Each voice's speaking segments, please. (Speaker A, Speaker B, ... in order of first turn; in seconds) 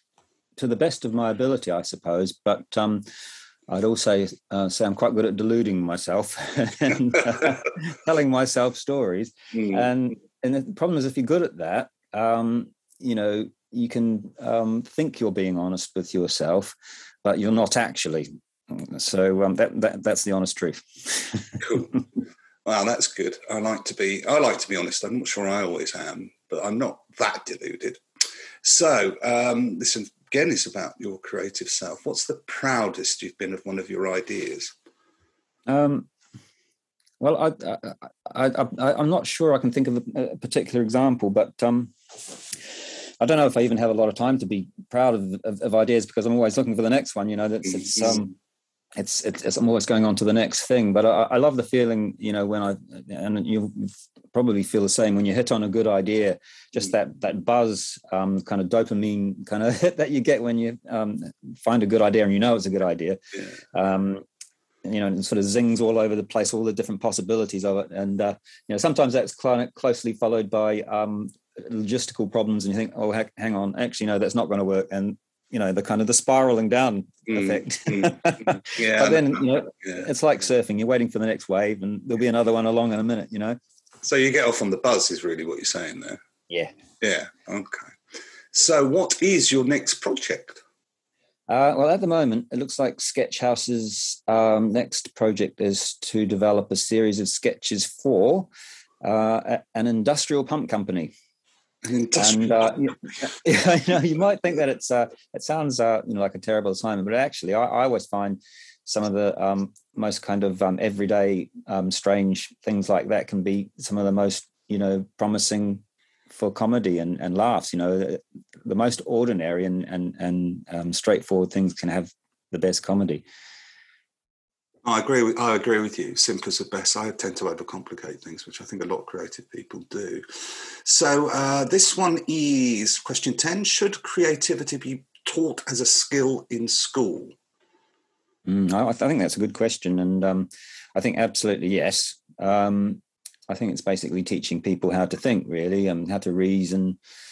Speaker A: 0.6-3.0, 3.7-21.5, 35.7-36.1, 37.2-41.9, 43.2-48.3, 49.0-63.2, 63.7-64.2, 64.8-83.6, 91.5-98.5, 99.0-101.1, 102.1-123.2, 138.4-147.0
Speaker B: 9.5-9.8, 21.6-22.0, 22.6-28.0, 28.6-34.7, 47.8-48.2, 77.3-80.0, 84.0-86.2, 87.0-88.0, 88.5-90.6, 101.8-103.2, 124.8-130.2, 130.8-137.3